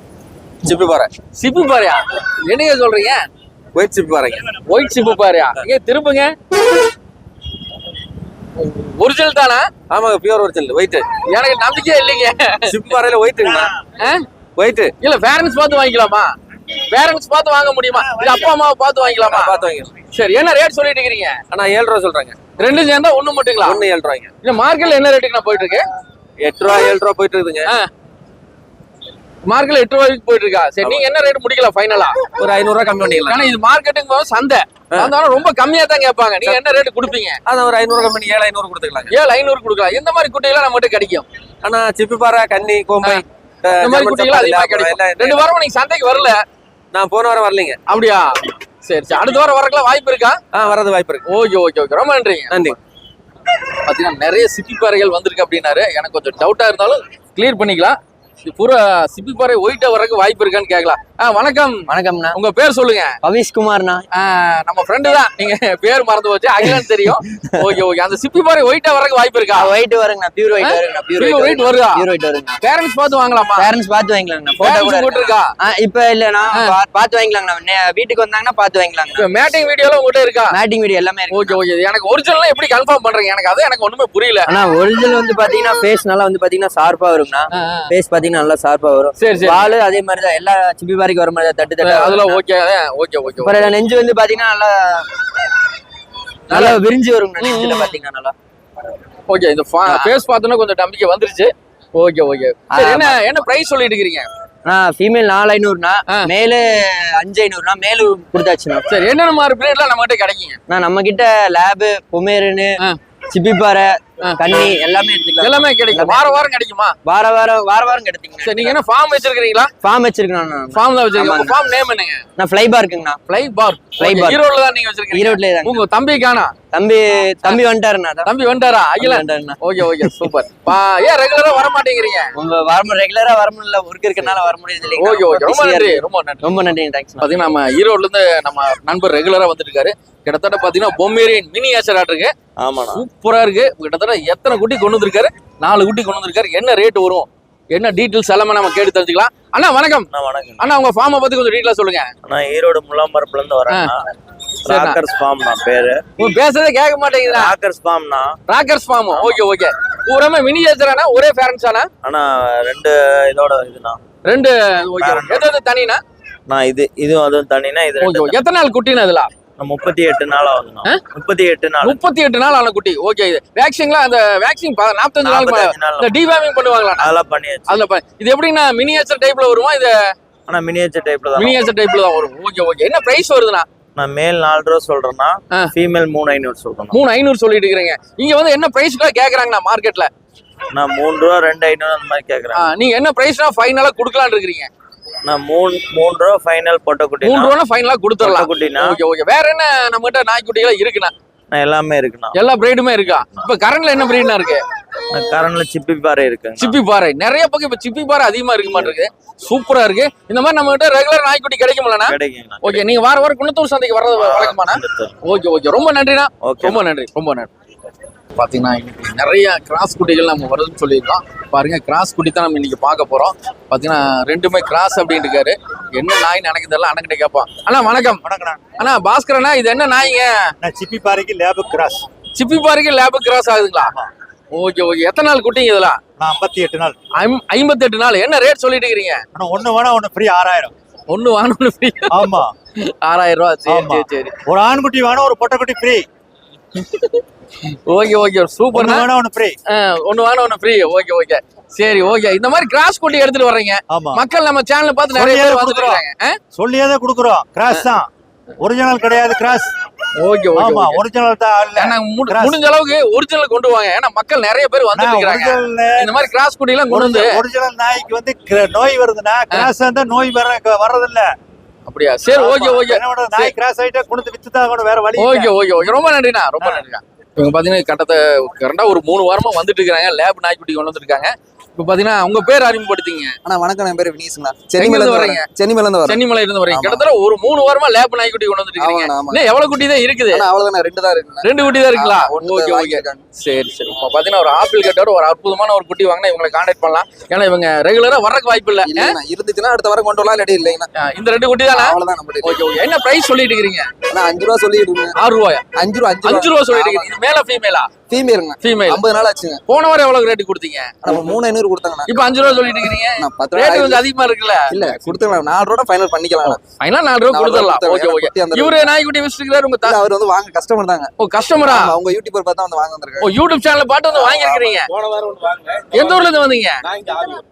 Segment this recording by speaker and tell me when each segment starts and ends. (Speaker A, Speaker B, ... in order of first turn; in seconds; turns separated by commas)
Speaker A: 0.7-3.2, Speaker B: 0.7-1.1, Speaker B: 3.7-4.5, Speaker A: 4.7-6.3, Speaker A: 8.7-9.7, Speaker B: 9.9-11.1, Speaker A: 11.2-12.8, Speaker B: 12.7-13.7, Speaker B: 14.6-14.9, Speaker A: 15.0-16.3, Speaker A: 16.9-19.6, Speaker C: 17.9-18.4, Speaker B: 19.3-19.9, Speaker A: 20.1-21.4, Speaker B: 21.5-22.5, Speaker A: 22.6-23.9, Speaker B: 23.6-24.3, Speaker A: 24.4-25.8, Speaker B: 26.4-27.7, Speaker A: 29.4-32.3, Speaker B: 32.3-33.4, Speaker A: 33.2-37.4, Speaker B: 37.5-39.1, Speaker A: 39.1-41.2, Speaker B: 41.6-45.4, Speaker A: 43.8-46.4, Speaker B: 46.9-47.8, Speaker A: 47.9-48.3, Speaker A: 48.8-50.4, Speaker B: 50.5-51.2, Speaker A: 51.3-52.8, Speaker B: 52.5-52.8, Speaker A: 53.8-63.2, Speaker D: 61.9-62.4, Speaker D: 63.3-64.0, Speaker A: 64.1-69.8, Speaker D: 69.6-72.6, Speaker A: 70.6-72.1, Speaker A: 72.6-73.7, Speaker D: 73.6-79.2, Speaker A: 74.6-75.5, Speaker A: 76.5-76.8, Speaker A: 79.2-80.6, Speaker D: 80.5-81.6, Speaker A: 81.3-84.5, Speaker D: 84.5-92.4, Speaker A: 87.5-87.9, Speaker A: 89.2-89.8, Speaker A: 91.8-93.8, Speaker D: 93.5-95.1, Speaker A: 96.5-96.9, Speaker D: 96.5-98.3, Speaker A: 97.4-98.0, Speaker A: 99.3-104.3, Speaker D: 102.7-103.2, Speaker D: 104.7-108.8, Speaker A: 108.9-110.6, Speaker D: 110.7-112.8, Speaker D: 113.3-116.3, Speaker A: 115.4-117.0, Speaker D: 117.1-118.7, Speaker A: 118.4-119.7, Speaker D: 119.8-121.5, Speaker A: 120.7-122.2, Speaker D: 122.4-123.2, Speaker A: 123.3-126.6, Speaker D: 124.0-124.4, Speaker D: 125.2-125.8, Speaker D: 126.7-128.3, Speaker A: 127.4-127.7, Speaker A: 128.2-132.3, Speaker D: 129.0-129.6, Speaker D: 132.4-137.2, Speaker A: 134.9-136.6, Speaker A: 137.2-142.3, Speaker E: 142.6-143.0, Speaker A: 142.9-152.1, Speaker E: 150.1-150.7, Speaker E: 152.2-154.0, Speaker A: 154.7-155.0, Speaker E: 154.7-156.0, Speaker A: 156.2-157.6, Speaker E: 157.3-158.4, Speaker A: 158.5-161.9, Speaker E: 159.1-159.5, Speaker E: 162.0-164.0, Speaker A: 164.3-166.0, Speaker E: 165.0-165.5, Speaker E: 166.5-168.4, Speaker A: 168.0-169.3, Speaker E: 169.6-172.0, Speaker A: 171.8-177.2, Speaker E: 175.2-176.2, Speaker E: 177.0-177.8, Speaker A: 177.7-180.1, Speaker E: 180.5-181.6, Speaker A: 181.3-183.7, Speaker E: 184.0-187.0, Speaker A: 186.9-190.1, Speaker E: 190.7-192.7, Speaker A: 192.5-194.7, Speaker E: 195.2-197.6, Speaker A: 197.2-201.1, Speaker E: 198.2-199.0, Speaker E: 201.5-202.4, Speaker A: 202.3-204.6, Speaker E: 205.1-206.8, Speaker A: 206.6-217.5, Speaker E: 212.1-212.9, Speaker E: 214.1-215.1, Speaker E: 216.5-216.8, Speaker A: 218.4-228.2, Speaker C: 228.2-228.7, Speaker A: 228.8-230.5, Speaker C: 230.6-232.1, Speaker A: 232.3-233.9, Speaker A: 234.5-236.0, Speaker C: 236.2-237.0, Speaker A: 237.2-239.2, Speaker C: 239.3-240.7, Speaker A: 241.1-244.3, Speaker C: 242.1-242.5, Speaker C: 243.7-246.1, Speaker A: 246.8-247.2, Speaker A: 247.9-249.1, Speaker C: 248.7-249.6, Speaker A: 249.7-256.4, Speaker C: 253.9-254.2, Speaker C: 255.1-256.0, Speaker C: 256.6-258.1, Speaker C: 258.6-259.7, Speaker A: 260.2-261.0, Speaker C: 260.6-262.6, Speaker A: 261.8-267.4, Speaker C: 264.9-266.2, Speaker C: 266.9-271.3, Speaker A: 271.9-273.5, Speaker C: 272.3-275.5, Speaker A: 275.2-283.4, Speaker F: 283.4-286.2, Speaker A: 284.8-285.5, Speaker A: 286.0-290.5, Speaker F: 286.7-287.0, Speaker F: 288.8-289.4, Speaker F: 290.3-293.2, Speaker A: 291.4-299.1, Speaker F: 298.8-300.9, Speaker A: 301.0-303.9, Speaker F: 301.7-302.6, Speaker F: 304.1-305.1, Speaker A: 305.2-305.6, Speaker F: 305.8-307.1, Speaker A: 306.2-307.9, Speaker F: 308.1-309.6, Speaker A: 308.6-309.1, Speaker A: 309.7-311.4, Speaker F: 311.0-312.3, Speaker A: 312.1-315.3, Speaker F: 313.2-314.0, Speaker F: 314.7-316.6, Speaker A: 316.4-320.0, Speaker F: 317.3-318.9, Speaker F: 319.9-321.1, Speaker A: 321.2-322.0, Speaker F: 321.6-323.3, Speaker A: 323.2-324.9, Speaker A: 325.9-326.9